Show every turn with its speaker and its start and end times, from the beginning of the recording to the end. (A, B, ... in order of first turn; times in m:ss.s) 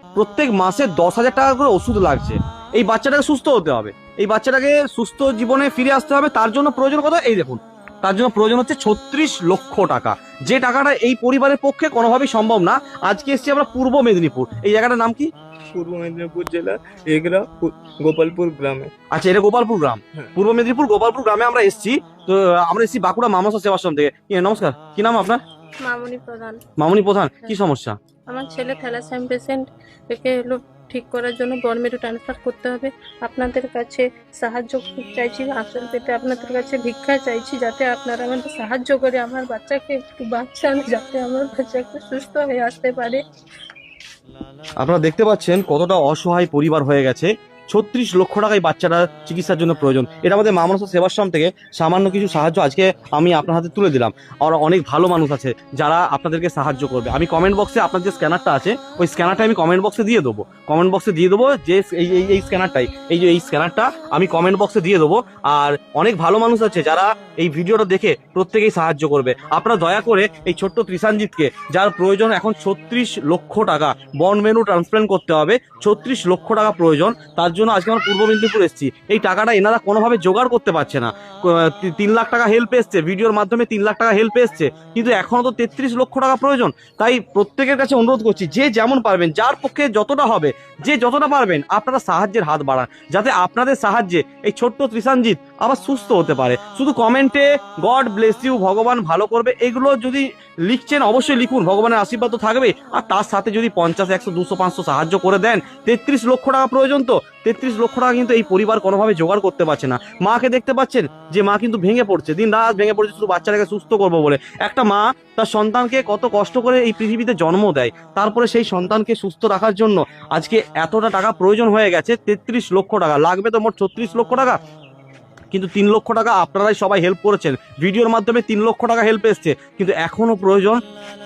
0:00.2-0:15.3 A
0:15.7-0:18.9 B
0:19.1-0:25.4 A
0:25.8-0:26.6 C
0:26.8-0:28.0 A
0:28.3-0:43.2 C
0:44.8-2:04.6 A
2:05.5-2:10.8 A